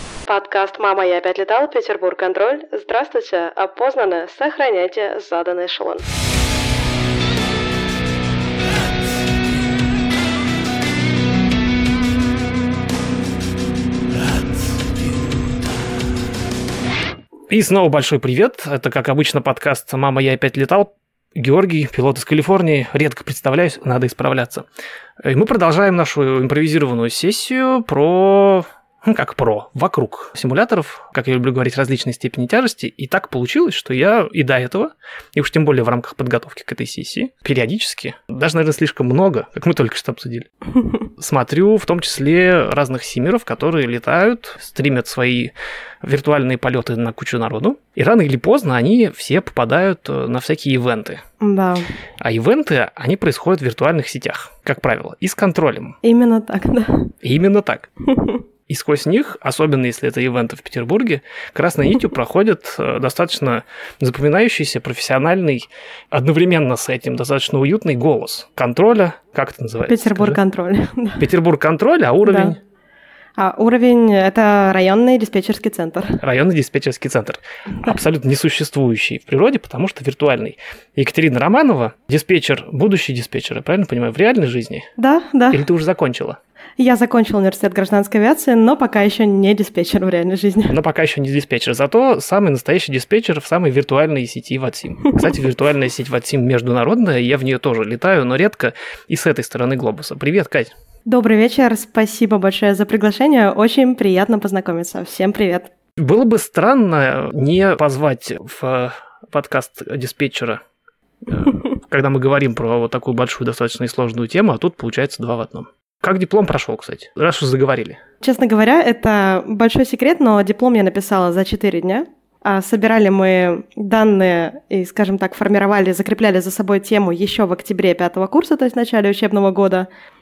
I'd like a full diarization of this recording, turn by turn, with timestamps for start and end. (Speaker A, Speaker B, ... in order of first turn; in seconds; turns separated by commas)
Speaker A: 0.3-6.0, Speaker B: 17.5-24.6, Speaker B: 25.2-40.5, Speaker B: 41.2-51.2, Speaker A: 51.4-51.9, Speaker B: 52.2-56.0, Speaker A: 56.0-57.1, Speaker B: 57.2-57.9, Speaker A: 58.1-58.4, Speaker B: 58.7-70.4, Speaker A: 69.9-71.2, Speaker B: 71.2-72.6, Speaker A: 72.2-72.5, Speaker A: 73.4-76.2, Speaker B: 76.2-84.9, Speaker A: 85.0-85.6, Speaker B: 85.5-86.4, Speaker A: 86.8-90.8, Speaker B: 90.7-100.7, Speaker A: 101.1-105.7, Speaker B: 106.0-110.6, Speaker B: 111.2-118.0, Speaker A: 118.2-129.9